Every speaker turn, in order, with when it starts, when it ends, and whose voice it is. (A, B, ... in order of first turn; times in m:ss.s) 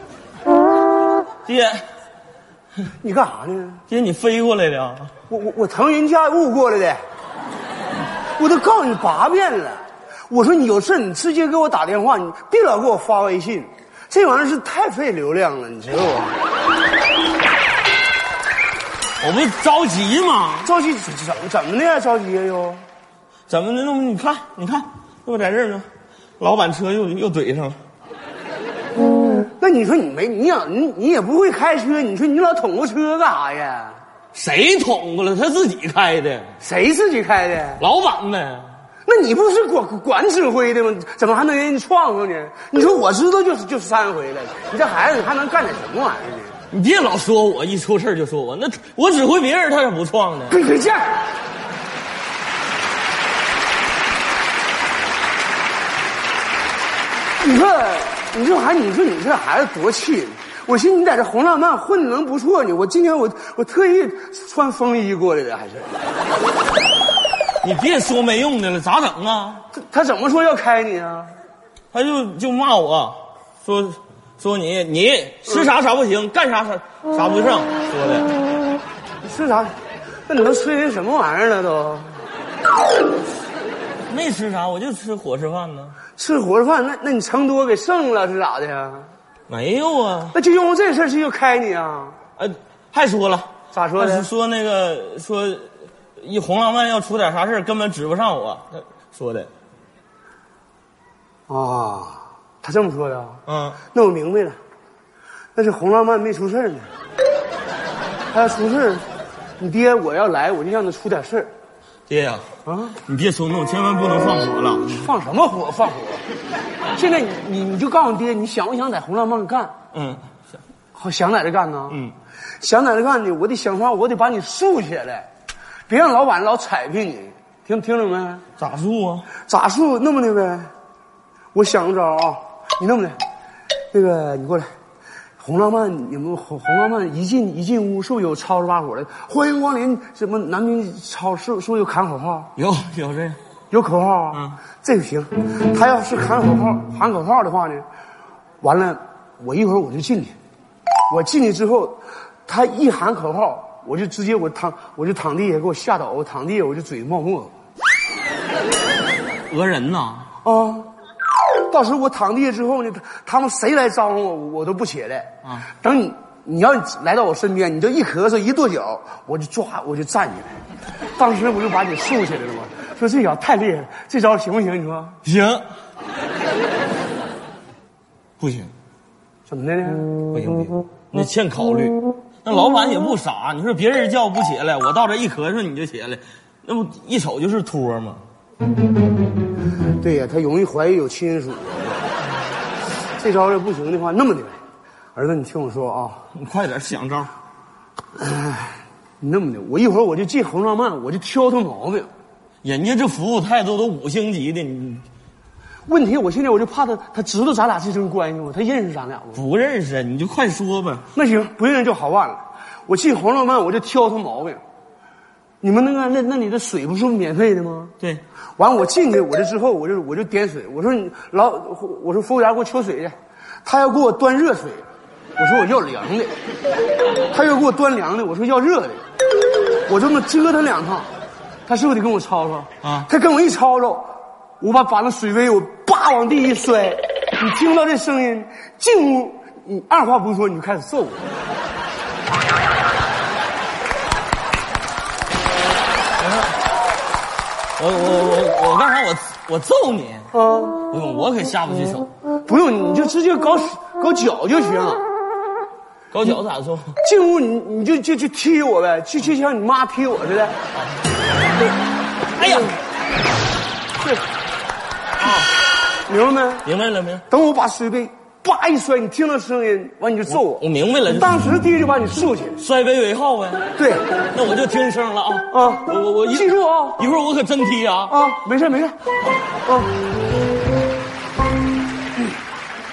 0:01.4-0:01.8 A
0:03.0-0:03.8 B
0:03.9-0:05.1 A
0:05.3-0:07.0 B
0:08.4-0:16.4 B
0:19.2-0:20.7 A
0:20.6-0:22.9 B
0:23.5-0:25.9 A
0:26.4-0:27.8 A
0:29.4-0:34.0 B
0:34.3-0:36.6 A
0:36.6-0:37.9 B
0:37.8-0:38.7 A
0:39.1-0:46.6 B
0:46.7-0:50.6 A
0:50.5-0:51.3 B
0:57.4-1:06.0 B
1:07.6-1:09.6 A
1:09.7-1:11.3 B
1:11.9-1:18.3 A
1:19.2-1:19.8 B
1:20.3-1:22.2 B
1:24.1-1:26.0 A
1:26.2-1:29.1 B
1:29.5-1:30.4 A
1:30.3-1:32.2 B
1:32.4-1:39.5 A
1:33.7-1:34.3 B
1:41.5-1:44.6 B
1:43.5-1:43.8 A
1:45.6-1:46.9 B
1:48.3-1:49.1 B
1:49.6-1:51.5 B
1:52.1-1:52.5 A
1:52.6-1:53.0 B
1:53.0-1:55.1 A
1:54.9-1:56.3 B
1:57.0-1:59.8 B
1:59.9-2:00.2 A
2:01.0-2:02.0 B
2:01.9-2:02.2 A
2:02.6-2:05.3 B
2:05.9-2:08.4 B
2:08.6-2:09.3 A
2:09.4-2:10.7 B
2:11.5-2:13.2 B
2:13.9-2:14.7 B
2:15.4-2:22.5 B
2:22.6-2:23.4 A
2:23.7-2:27.9 B
2:24.3-2:24.6 A
2:28.6-2:30.3 B
2:31.1-2:37.5 B
2:39.5-2:40.3 A
2:40.4-2:40.9 B
2:41.7-2:50.6 B
2:45.4-2:45.7 A
2:51.2-2:55.2 B
2:55.2-2:55.7 A
2:58.4-2:58.7 A
2:59.5-3:00.1 B
3:00.3-3:08.2 A
3:10.0-3:12.1 B
3:13.2-3:14.6 B
3:15.2-3:16.3 B
3:16.3-3:17.3 A
3:18.2-3:22.1 B
3:22.6-3:25.0 A
3:25.9-3:29.4 B
3:29.3-3:31.1 A
3:31.1-3:34.6 B
3:35.6-3:37.9 B
3:38.6-3:44.8 B
3:45.4-3:46.3 B
3:47.3-3:49.0 B
3:49.9-3:51.1 B
3:51.7-4:01.3 B
3:52.8-3:53.1 A
4:06.2-4:06.6 A
4:07.8-4:10.3 A
4:10.3-4:10.8 B
4:10.9-4:12.1 A
4:12.5-4:15.0 B
4:16.1-4:17.0 A
4:17.0-4:20.6 B
4:22.4-4:22.8 A
4:25.2-4:25.5 A
4:26.1-4:26.7 B
4:26.6-4:27.3 A
4:27.3-4:32.6 B
4:30.3-4:31.4 A
4:32.6-4:33.7 A
4:33.8-4:34.1 B
4:34.3-4:38.2 A
4:35.5-4:37.0 B
4:38.1-4:39.0 B
4:39.6-4:40.0 B